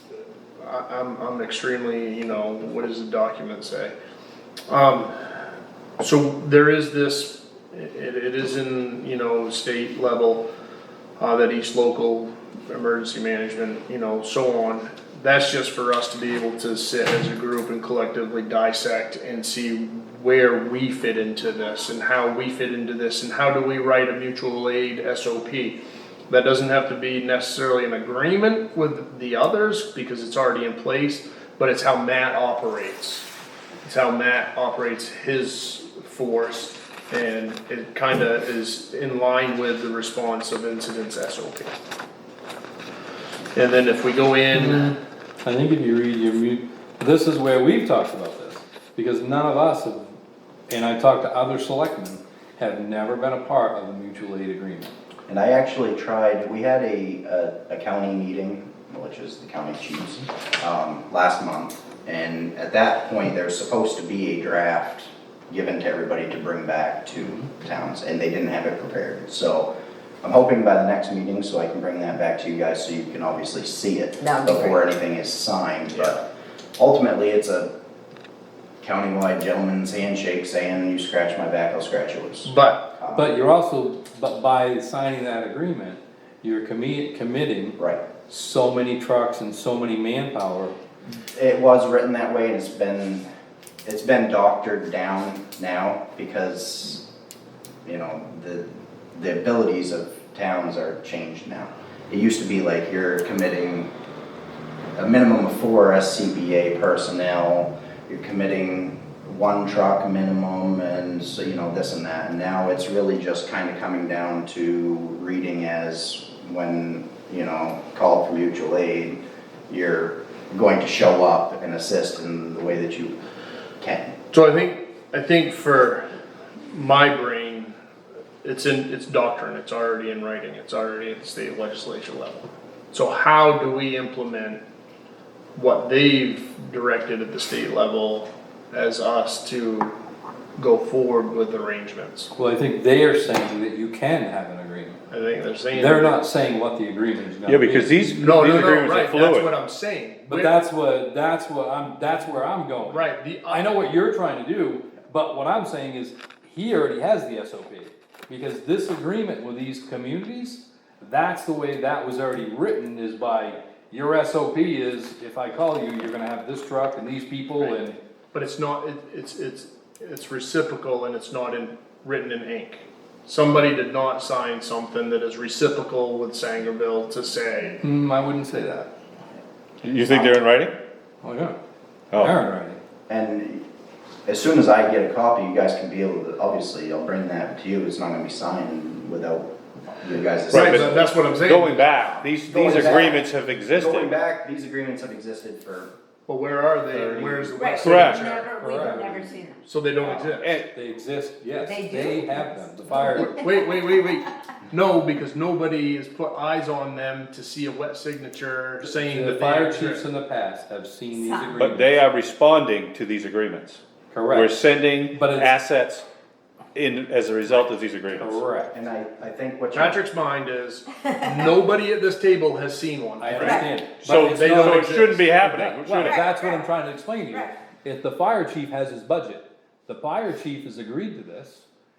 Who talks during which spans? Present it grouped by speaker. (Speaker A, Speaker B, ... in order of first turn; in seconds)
Speaker A: 0.6-3.9, 4.7-5.1, 6.0-10.4, 11.2-33.3, 33.8-41.8, 43.5-45.0, 82.4-82.9, 124.3-126.0, 126.7-127.8, 128.4-134.6, 135.5-139.9, 140.6-142.3, 145.1-146.2, 148.2-150.5, 152.9-153.6, 167.6-177.8, 190.5-191.9, 196.3-198.9, 199.6-200.5, 202.9-210.0, 219.7-225.3
Speaker B: 44.5-50.1, 50.7-55.0, 83.1-87.8, 88.3-90.7, 142.3-145.0, 145.7-148.1, 150.3-168.0, 177.8-178.9, 181.2-181.6, 182.2-182.8, 198.6-199.3, 200.7-203.3, 208.8-212.0, 214.1-214.5, 215.1-215.5, 218.1-218.7, 223.2-231.6
Speaker C: 55.3-69.7, 70.2-76.2, 76.8-77.7, 78.8-83.3, 87.8-88.0, 91.3-93.2, 93.8-97.1, 97.8-103.9, 105.0-123.2, 123.8-124.1, 183.1-183.6, 184.2-191.1, 192.4-195.9, 218.7-220.0
Speaker D: 74.2-74.8, 197.5-199.7, 201.6-203.7, 211.2-211.6, 223.3-223.6, 225.9-226.7, 227.2-227.6
Speaker E: 147.5-149.5, 179.8-180.7, 190.5-194.1, 196.9-198.3, 200.0-200.7, 211.6-216.0, 216.7-218.4, 224.0-226.2